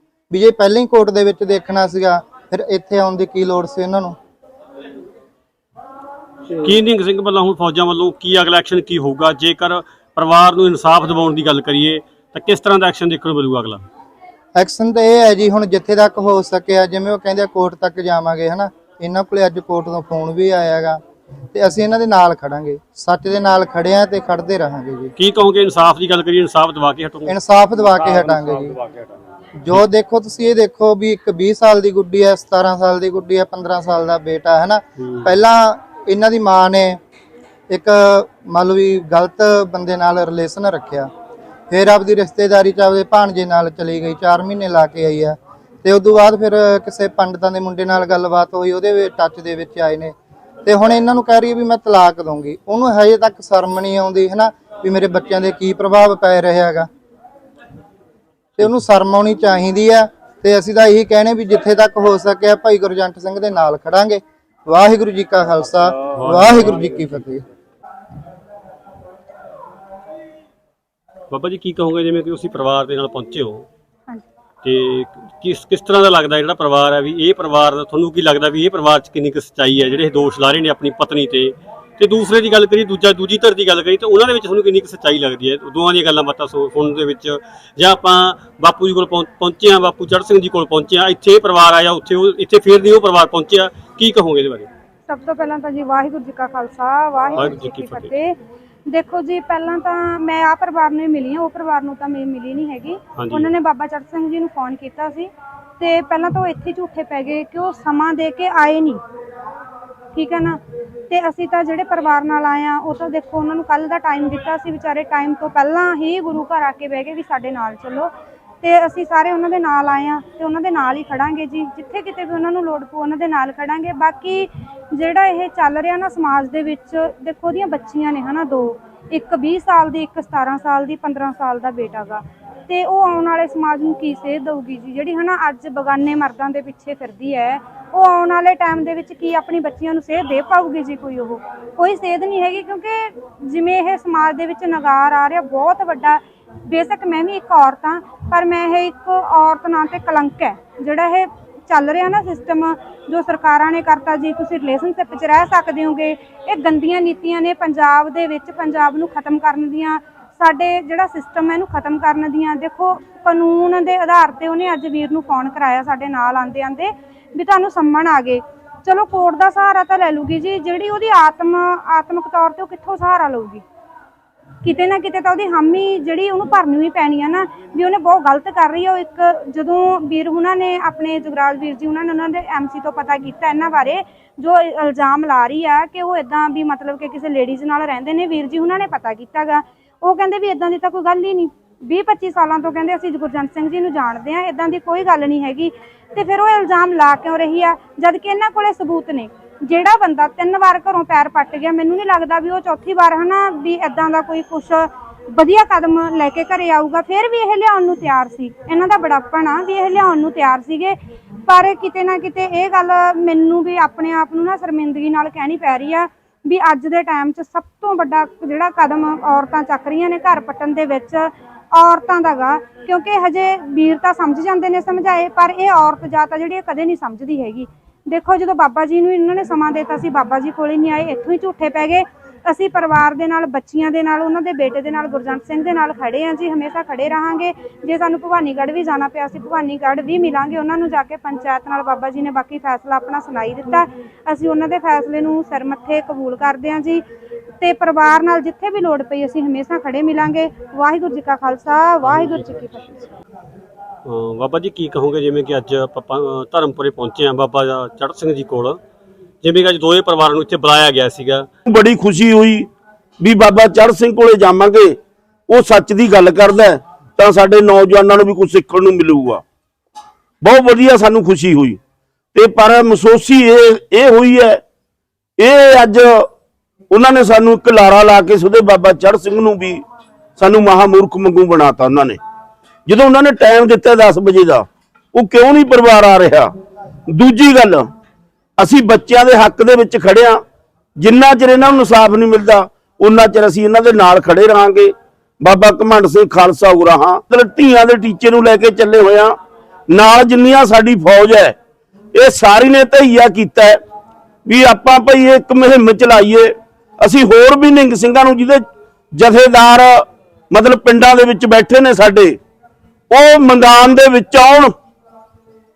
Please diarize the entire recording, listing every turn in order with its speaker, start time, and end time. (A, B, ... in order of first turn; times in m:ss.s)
0:00.3-0:04.2 A
0:06.6-0:13.8 B
0:14.6-0:21.0 A
0:21.5-0:25.1 A
0:25.2-0:29.1 B
0:27.3-0:28.8 A
0:29.6-0:37.0 A
0:35.0-0:35.3 B
0:37.7-0:41.1 A
0:41.7-0:56.9 A
0:58.6-1:07.4 A
1:06.1-1:06.9 B
1:11.3-1:13.6 B
1:14.6-1:34.7 B
1:35.1-1:38.4 C
1:37.4-1:38.1 B
1:38.9-1:49.0 C
1:43.2-1:43.5 B
1:50.1-1:58.1 C
1:58.6-2:53.6 C
2:54.6-4:07.0 C
4:07.6-4:13.1 C
4:12.1-4:12.4 B
4:14.0-4:18.8 B
4:19.4-4:21.5 B
4:21.7-4:22.7 D
4:23.2-4:25.0 D
4:25.5-4:29.4 D
4:30.4-4:31.8 D
4:32.3-4:34.6 D
4:35.4-4:36.3 D
4:36.9-4:39.8 D
4:40.4-4:42.2 D
4:42.8-4:46.5 D
4:47.1-4:47.9 D
4:48.6-4:50.4 D
4:51.0-4:59.4 D
4:59.9-5:01.6 D
5:02.1-5:03.8 D
5:04.4-5:12.4 D
5:13.1-5:14.7 D